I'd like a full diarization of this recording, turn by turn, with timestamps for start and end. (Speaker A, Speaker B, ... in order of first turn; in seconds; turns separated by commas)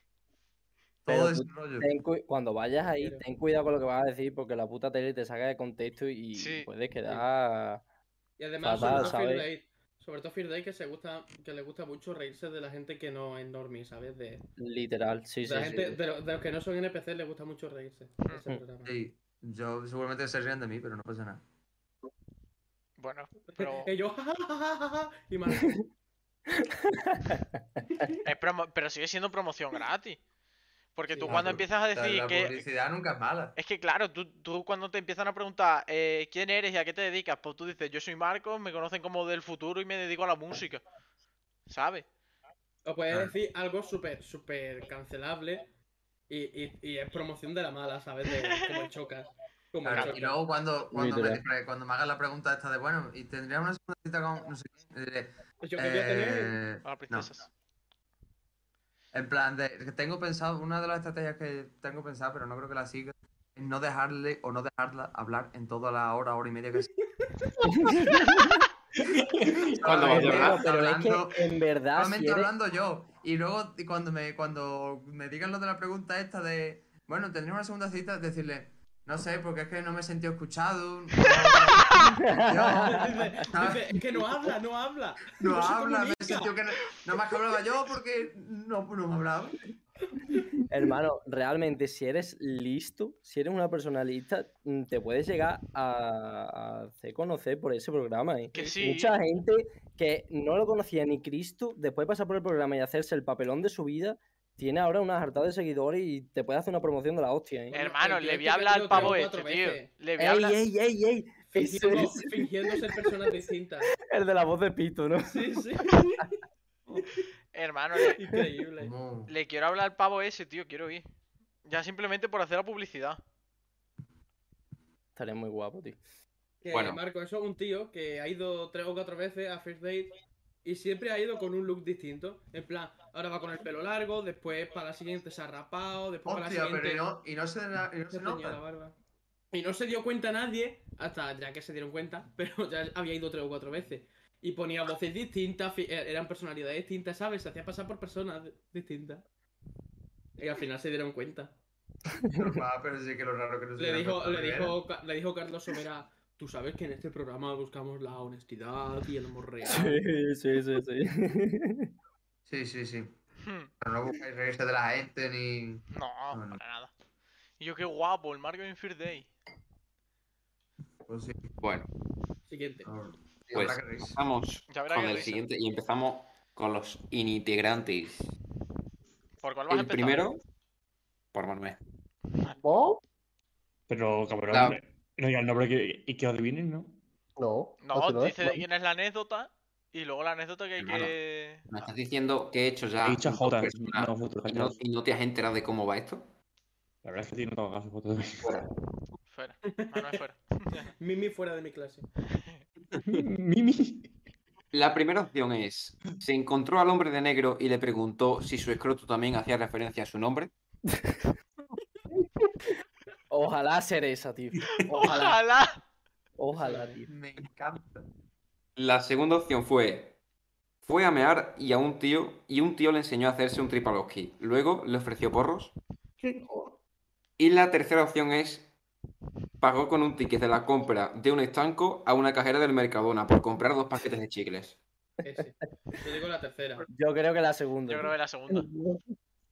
Speaker A: 1.0-1.9, Speaker B: 1.1-7.8, Speaker C: 3.0-3.2, Speaker D: 6.3-6.7, Speaker C: 8.4-14.4, Speaker B: 8.6-9.5, Speaker B: 14.6-16.0, Speaker C: 15.4-18.9, Speaker A: 18.8-21.4, Speaker D: 23.0-23.9, Speaker C: 23.5-25.8, Speaker B: 26.6-27.4, Speaker D: 28.2-30.2, Speaker D: 30.9-32.6, Speaker C: 31.1-31.5, Speaker A: 31.3-33.5, Speaker D: 33.6-40.8, Speaker D: 41.7-42.0, Speaker C: 42.8-45.7, Speaker A: 43.1-43.3, Speaker C: 46.3-50.4, Speaker D: 48.4-48.9, Speaker A: 49.8-57.3, Speaker D: 49.9-50.2, Speaker B: 50.9-51.4, Speaker C: 55.6-56.6, Speaker D: 56.8-57.5, Speaker A: 59.1-66.9, Speaker B: 67.8-68.5, Speaker A: 69.8-84.5, Speaker E: 69.8-70.6, Speaker B: 69.8-72.5, Speaker B: 82.2-83.2, Speaker C: 82.6-86.5, Speaker A: 85.4-89.6, Speaker B: 90.7-107.8, Speaker D: 98.5-99.2, Speaker D: 107.7-110.6, Speaker C: 107.7-109.9, Speaker B: 110.2-112.8, Speaker C: 111.5-113.9, Speaker B: 114.1-115.6, Speaker C: 115.3-116.2, Speaker D: 117.5-118.2, Speaker C: 118.1-118.9, Speaker A: 118.8-119.3, Speaker D: 119.3-121.1, Speaker D: 121.7-123.2, Speaker B: 125.2-126.0, Speaker C: 126.6-130.1, Speaker E: 126.7-127.0, Speaker C: 130.6-137.1, Speaker A: 136.2-138.6, Speaker C: 138.1-138.9, Speaker C: 139.5-149.2, Speaker C: 150.4-151.6, Speaker A: 152.3-154.8, Speaker C: 153.8-160.0, Speaker B: 159.6-161.9, Speaker A: 162.5-163.1, Speaker D: 163.4-163.7, Speaker A: 163.8-166.6, Speaker D: 165.9-166.9, Speaker D: 167.6-169.3, Speaker A: 171.1-171.5, Speaker E: 171.6-171.9, Speaker C: 172.5-172.9, Speaker A: 172.8-174.2, Speaker E: 173.5-178.3, Speaker D: 174.7-175.4, Speaker D: 179.4-180.3, Speaker E: 179.7-180.4, Speaker E: 181.3-181.8, Speaker F: 182.6-183.0, Speaker G: 183.9-187.0, Speaker E: 184.5-184.8, Speaker F: 187.4-188.6, Speaker D: 187.8-191.6, Speaker E: 190.8-191.1, Speaker E: 191.7-196.3, Speaker G: 193.0-194.8, Speaker G: 197.0-198.4, Speaker E: 198.4-198.7, Speaker D: 199.3-200.9, Speaker C: 199.6-200.2, Speaker C: 201.0-202.1, Speaker G: 203.0-204.1, Speaker E: 204.7-210.5, Speaker B: 213.3-215.4, Speaker D: 214.9-215.8, Speaker B: 216.4-217.1, Speaker C: 216.5-217.0, Speaker A: 217.1-218.1, Speaker E: 218.8-220.2, Speaker E: 220.8-225.7, Speaker F: 226.2-226.7, Speaker E: 227.4-228.7, Speaker E: 229.6-234.8, Speaker C: 235.2-236.8, Speaker B: 236.9-238.1, Speaker D: 237.9-238.7, Speaker F: 238.5-239.0